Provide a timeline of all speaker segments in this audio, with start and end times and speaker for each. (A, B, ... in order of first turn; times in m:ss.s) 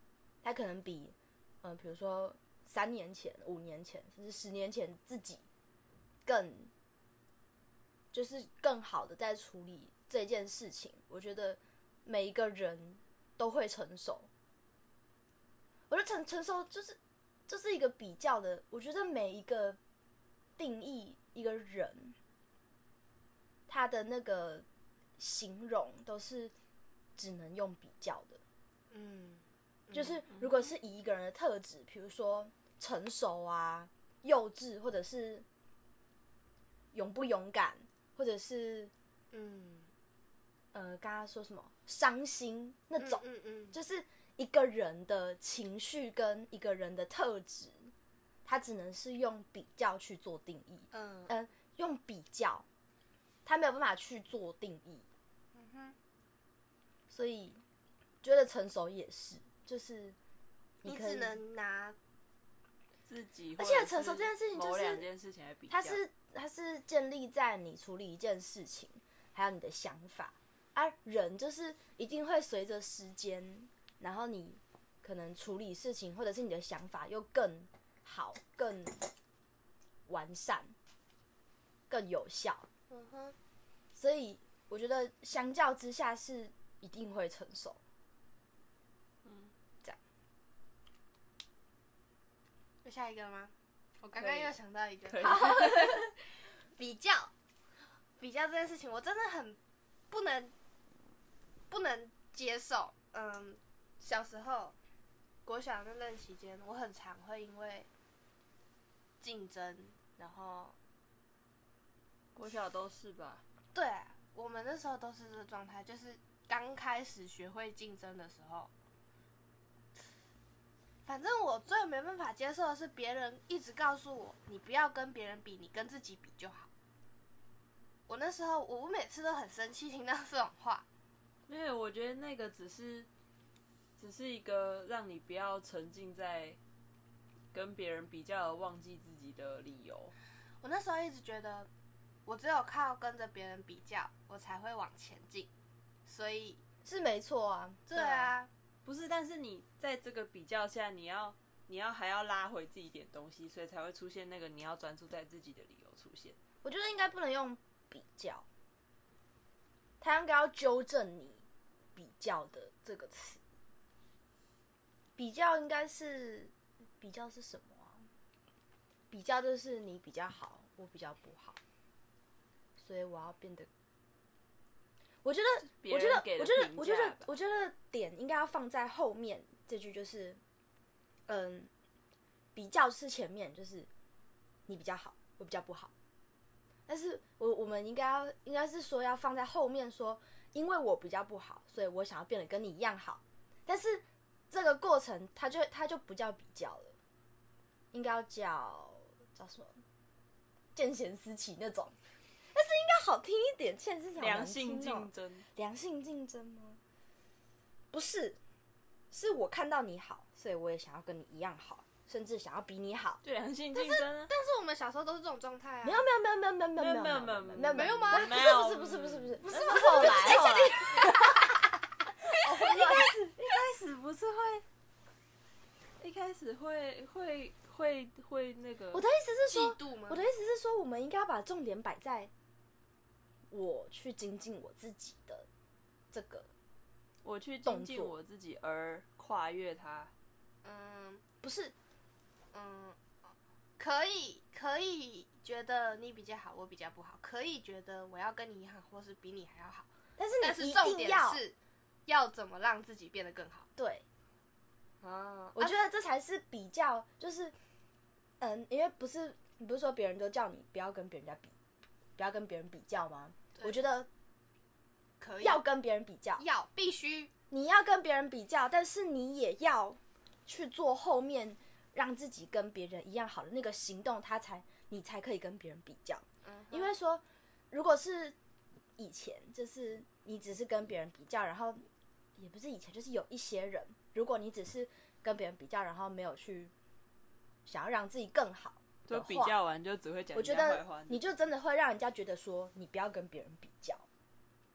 0:00.4-0:05.4 A
0:06.2-0:06.7 A
0:08.1-0:14.3 A
0:15.9-0:19.8 A
0:20.6-0:22.2 A
0:23.7-0:24.6 A
0:25.2-0:26.5 A
0:27.2-0:28.4 A
0:28.9-0:30.3 B
0:29.9-0:35.4 A
0:36.9-0:38.9 A
0:39.3-0:39.9 B
0:40.7-0:47.9 A
0:43.0-0:43.8 B
0:48.4-0:52.6 A
0:50.9-0:51.3 B
0:53.4-0:55.0 A
0:55.5-0:56.0 B
0:57.1-0:57.6 A
0:58.2-1:00.2 A
1:00.8-1:01.4 A
1:00.8-1:02.0 B
1:03.1-1:06.0 C
1:03.6-1:05.0 A
1:05.7-1:19.0 A
1:20.1-1:20.7 A
1:21.9-1:22.6 A
1:22.9-1:23.4 B
1:23.9-1:27.8 A
1:29.2-1:29.5 C
1:32.8-1:36.1 B
1:34.1-1:34.5 C
1:35.1-1:36.1 C
1:36.7-1:37.3 B
1:38.2-1:39.6 B
1:40.1-1:40.5 B
1:41.7-1:44.7 B
1:45.4-1:47.9 B
1:49.2-1:50.8 B
1:52.3-1:53.4 C
1:53.7-1:58.7 B
2:01.0-2:06.7 B
2:08.1-2:10.8 B
2:11.5-2:13.1 C
2:14.0-2:16.6 C
2:17.5-2:20.1 C
2:20.6-2:21.7 B
2:22.2-2:25.5 B
2:26.0-2:26.6 B
2:26.8-2:28.3 A
2:27.9-2:28.5 B
2:28.8-2:36.4 C
2:36.6-2:38.4 A
2:40.0-2:41.4 A
2:41.9-2:43.4 A
2:45.2-2:48.1 A
2:49.1-2:51.6 A
2:52.8-2:53.7 A
2:55.2-3:00.4 A
2:55.7-2:57.3 C
3:01.3-3:01.7 A
3:02.5-3:03.9 A
3:04.7-3:05.9 A
3:06.9-3:17.0 A
3:17.9-3:19.8 A
3:20.7-3:22.0 A
3:22.5-3:26.8 A
3:24.2-3:25.4 C
3:27.9-3:28.4 A
3:29.1-3:33.2 A
3:33.2-3:34.3 C
3:33.7-3:36.0 B
3:35.8-3:41.6 A
3:36.8-3:40.9 C
3:37.7-3:38.3 B
3:39.5-3:41.1 B
3:42.4-3:43.2 B
3:42.4-3:43.3 A
3:42.6-3:44.6 C
3:46.0-3:49.0 C
3:48.9-3:52.3 A
3:49.5-3:50.2 B
3:53.5-3:55.5 A
3:56.1-3:56.5 A
3:57.2-4:00.1 C
3:57.6-3:58.2 A
4:00.6-4:01.2 B
4:01.4-4:01.7 A
4:02.5-4:03.0 B
4:03.8-4:09.9 B
4:10.2-4:11.4 A
4:10.4-4:11.6 B
4:12.1-4:13.7 B
4:13.8-4:14.0 A
4:15.0-4:15.8 B
4:15.6-4:17.5 A
4:18.4-4:21.5 A
4:22.2-4:24.1 A
4:25.2-4:25.6 B
4:25.4-4:26.4 A
4:26.4-4:27.3 B
4:27.5-4:38.4 A
4:36.4-4:36.9 B
4:39.0-4:41.8 A
4:42.4-4:46.7 A
4:47.6-4:49.5 A
4:49.1-4:51.2 C
4:50.3-4:54.0 A